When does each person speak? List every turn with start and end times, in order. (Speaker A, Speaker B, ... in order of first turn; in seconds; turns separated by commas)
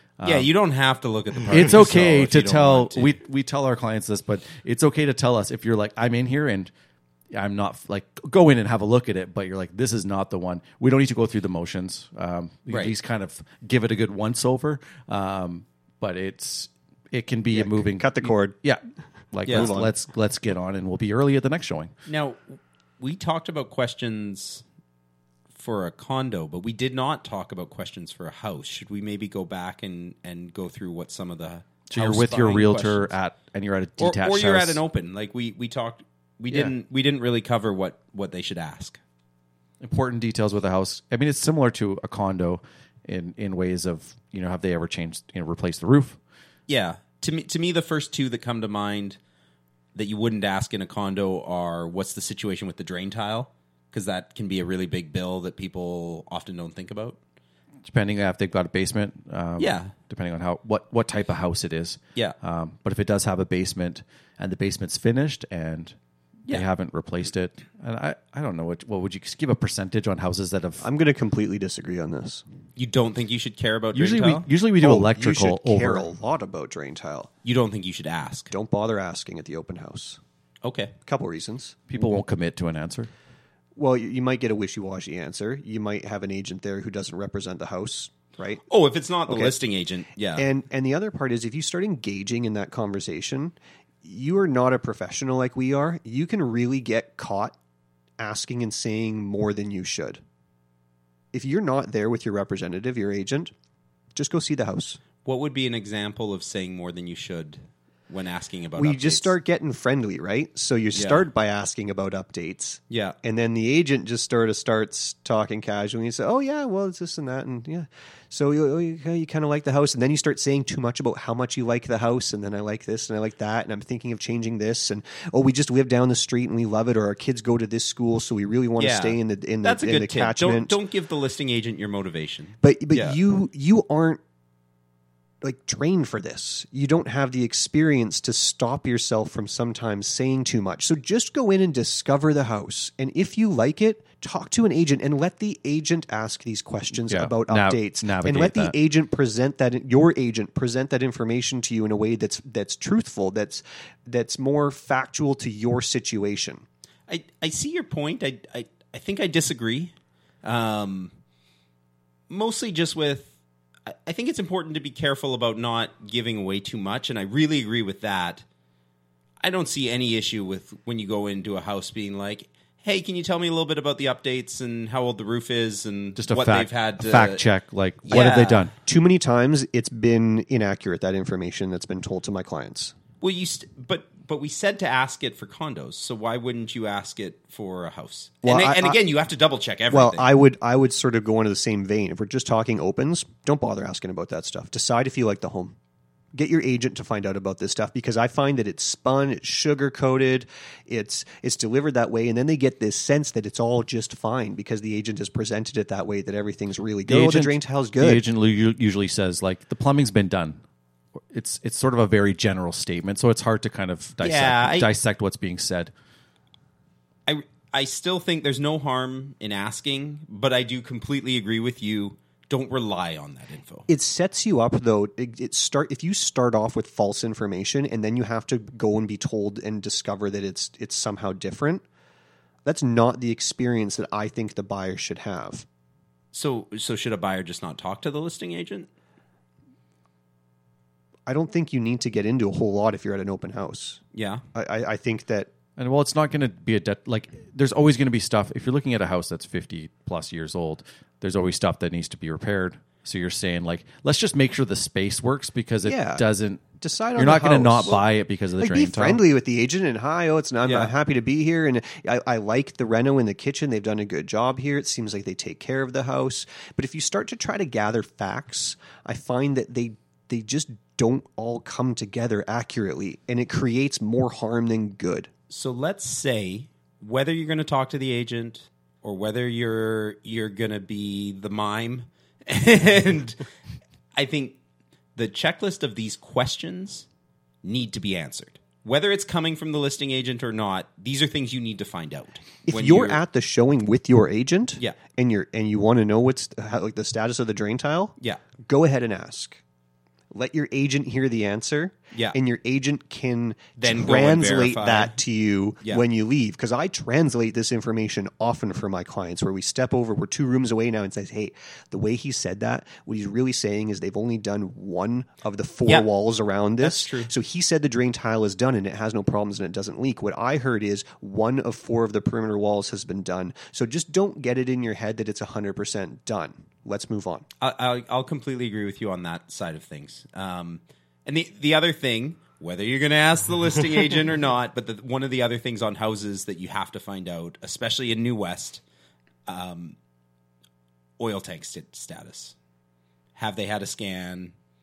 Speaker A: 0.2-0.5, Speaker B: 0.2-3.1, Speaker A: 1.4-6.7, Speaker A: 7.3-18.8, Speaker B: 12.7-12.9, Speaker C: 17.5-18.6, Speaker A: 19.3-21.9, Speaker B: 19.4-19.7, Speaker C: 19.5-19.9, Speaker B: 22.1-24.6, Speaker B: 25.6-33.1, Speaker A: 31.9-34.8, Speaker B: 34.0-39.0, Speaker A: 39.8-46.2, Speaker B: 46.7-49.2, Speaker B: 49.9-57.2, Speaker A: 57.8-66.0, Speaker B: 59.6-59.9, Speaker A: 66.5-70.9, Speaker C: 70.8-72.4, Speaker B: 72.8-74.5, Speaker A: 73.9-76.1, Speaker C: 74.8-77.3, Speaker B: 77.4-78.5, Speaker C: 78.5-80.2, Speaker B: 80.6-80.9, Speaker C: 81.0-81.8, Speaker A: 81.9-83.1, Speaker C: 83.8-88.6, Speaker B: 88.7-90.5, Speaker C: 89.3-89.6, Speaker C: 90.3-97.5, Speaker C: 98.2-100.2, Speaker C: 101.3-103.5, Speaker C: 104.1-105.0, Speaker B: 105.2-109.3, Speaker C: 108.8-130.8, Speaker B: 110.9-111.3, Speaker B: 112.9-113.2, Speaker B: 128.8-133.2, Speaker C: 132.6-134.2, Speaker C: 135.4-156.6, Speaker A: 146.9-148.8, Speaker B: 157.1-159.9, Speaker B: 160.4-161.1, Speaker B: 162.3-163.3, Speaker B: 163.9-168.4, Speaker B: 169.4-177.4, Speaker A: 176.2-178.7, Speaker B: 178.0-178.7, Speaker C: 178.1-182.9, Speaker B: 183.2-190.3, Speaker C: 188.4-189.0, Speaker C: 189.9-195.8, Speaker C: 196.3-208.2, Speaker A: 207.1-210.6, Speaker A: 211.3-215.9, Speaker B: 214.2-214.9, Speaker B: 217.3-223.9, Speaker C: 223.9-231.8, Speaker C: 232.6-235.7, Speaker B: 236.3-238.9, Speaker C: 241.2-244.0, Speaker B: 244.1-244.4, Speaker C: 244.5-245.5, Speaker A: 245.8-259.2, Speaker C: 255.8-256.2, Speaker C: 256.8-258.0, Speaker C: 258.6-275.3, Speaker B: 260.6-260.9, Speaker B: 275.5-283.4, Speaker B: 284.1-284.6, Speaker B: 285.1-287.1, Speaker B: 287.6-293.2, Speaker C: 292.6-299.6, Speaker C: 300.3-327.4, Speaker B: 302.1-302.4, Speaker B: 303.8-305.1, Speaker B: 316.8-317.3, Speaker B: 327.6-338.8, Speaker B: 339.5-339.9, Speaker B: 341.2-342.5, Speaker B: 343.4-344.5